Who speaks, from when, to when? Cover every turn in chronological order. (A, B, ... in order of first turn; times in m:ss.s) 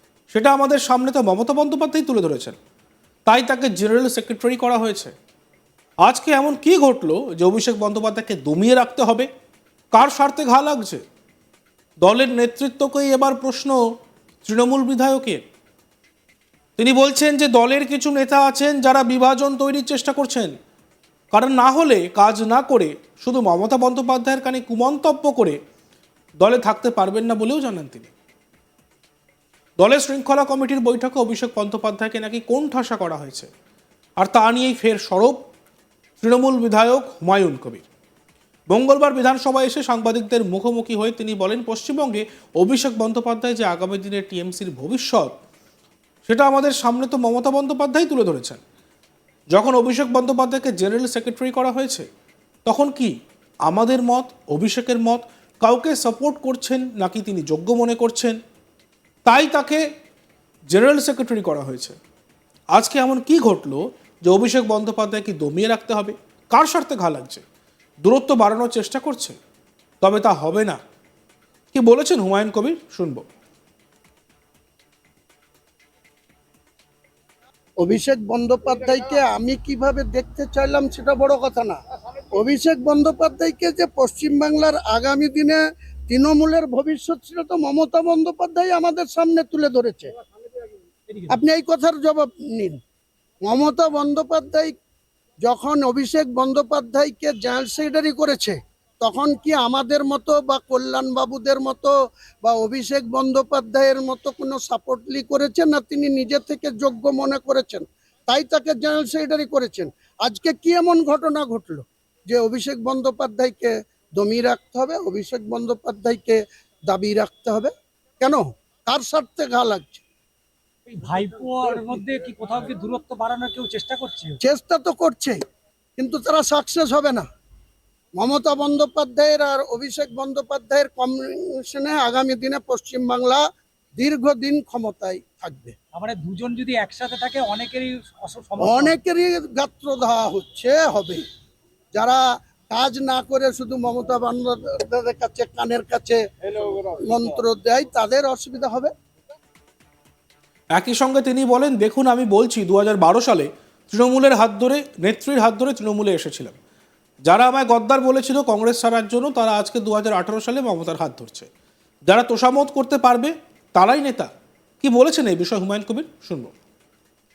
0:00.3-0:02.6 A
0:03.3-0:05.1 A
0:06.0-0:09.3 A
0:09.9-0:11.0 A
0:12.0-0:13.8 A
0:14.4-0:15.4 A
0:16.8-0:20.6 A
0:21.3-0:25.6 A
0:26.4-0:28.1 A
0:29.8-0:33.5 A
0:34.2-0:35.4 A
0:36.2-0:37.8 A
0:38.7-0:45.3 A
0:46.3-0:48.6 A
0:49.5-0:52.1 A
0:52.7-0:53.2 A
0:53.7-0:58.4 A
0:59.3-0:59.8 A
1:00.7-1:02.0 A
1:02.7-1:07.4 A
1:08.0-1:09.4 A
1:10.0-1:10.8 A
1:11.7-1:13.2 A
1:17.8-1:21.8 B
1:22.3-1:30.1 B
1:31.1-1:31.4 C
1:31.3-1:32.8 B
1:33.4-1:34.7 B
1:35.4-2:00.0 B
2:00.9-2:04.4 C
2:04.4-2:05.4 B
2:06.0-2:07.3 B
2:08.2-2:13.4 B
2:14.0-2:15.8 B
2:15.9-2:19.0 C
2:18.6-2:21.2 B
2:21.9-2:28.9 B
2:30.7-2:36.6 A
2:37.3-2:41.5 A
2:42.1-2:44.3 A
2:44.8-2:46.5 A